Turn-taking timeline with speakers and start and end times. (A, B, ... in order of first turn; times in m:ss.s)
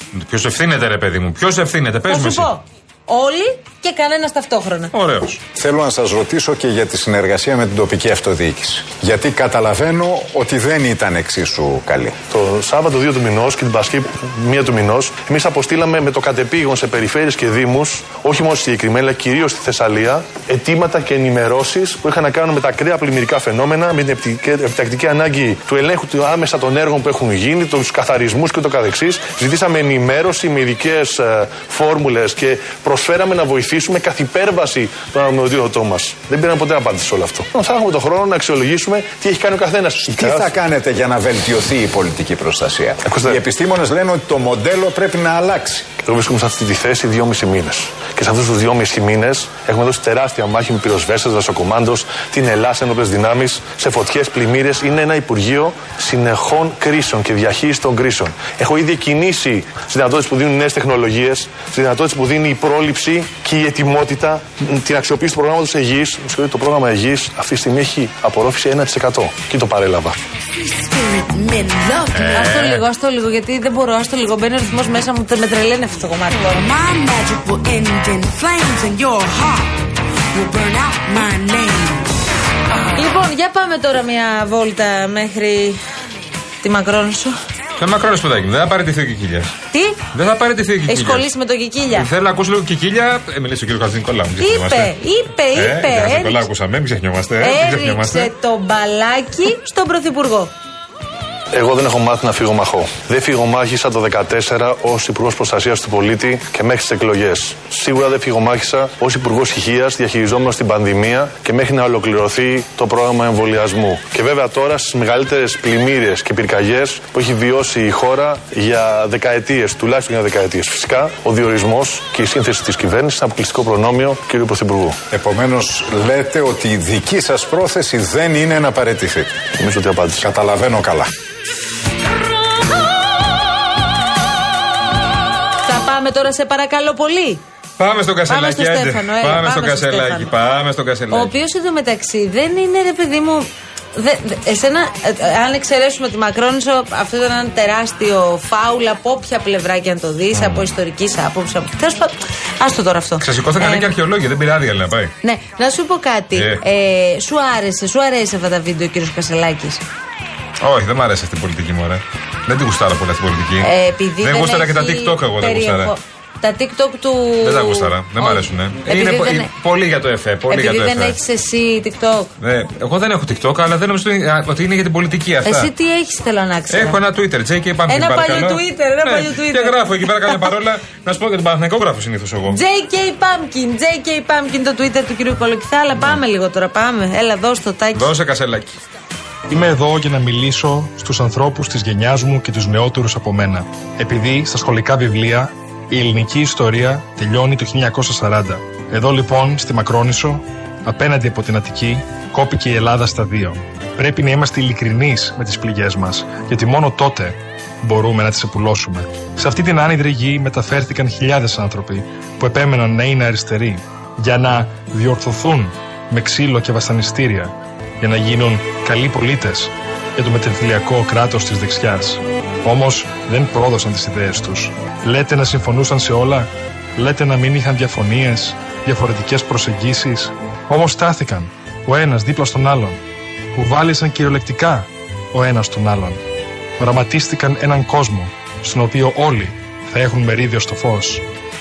0:00.1-0:02.5 A
0:02.1-0:04.9 B
0:04.9-0:05.4 A
0:05.5-0:12.1 C
0:12.3-0:40.5 D
0:40.0-0:45.9 C
0:43.0-0:43.4 D
0:46.0-1:10.2 D
1:10.6-1:12.4 E
1:12.1-1:12.8 A
1:12.3-1:16.6 B
1:16.4-1:19.7 E
1:20.3-1:22.1 E
1:22.9-1:25.8 B
1:26.6-1:27.4 B
1:27.8-1:29.5 A
1:29.7-1:30.0 B
1:30.1-1:31.3 A
1:30.9-1:32.1 B
1:31.9-1:34.9 A
1:34.4-1:36.5 B
1:35.5-1:38.3 A
1:37.4-1:40.5 B
1:41.5-2:05.0 D
2:05.1-2:09.3 C
2:09.6-2:10.2 D
2:10.2-2:11.1 C
2:15.6-2:17.4 B
2:17.8-2:21.3 A
2:18.3-2:20.3 B
2:21.1-2:33.9 B
2:30.3-2:30.7 A
2:33.2-2:35.1 A
2:35.2-2:39.8 B
2:36.4-2:36.6 A
2:40.6-2:45.9 A
2:43.6-2:49.5 B
2:47.4-2:51.2 A
2:50.5-2:52.3 B
2:52.4-2:55.7 A
2:55.4-2:57.0 B
2:56.7-3:02.6 A
2:57.9-3:00.4 B
3:02.5-3:08.1 B
3:07.9-3:08.8 A
3:09.5-3:53.0 F
3:53.5-3:56.2 F
3:56.8-4:01.2 F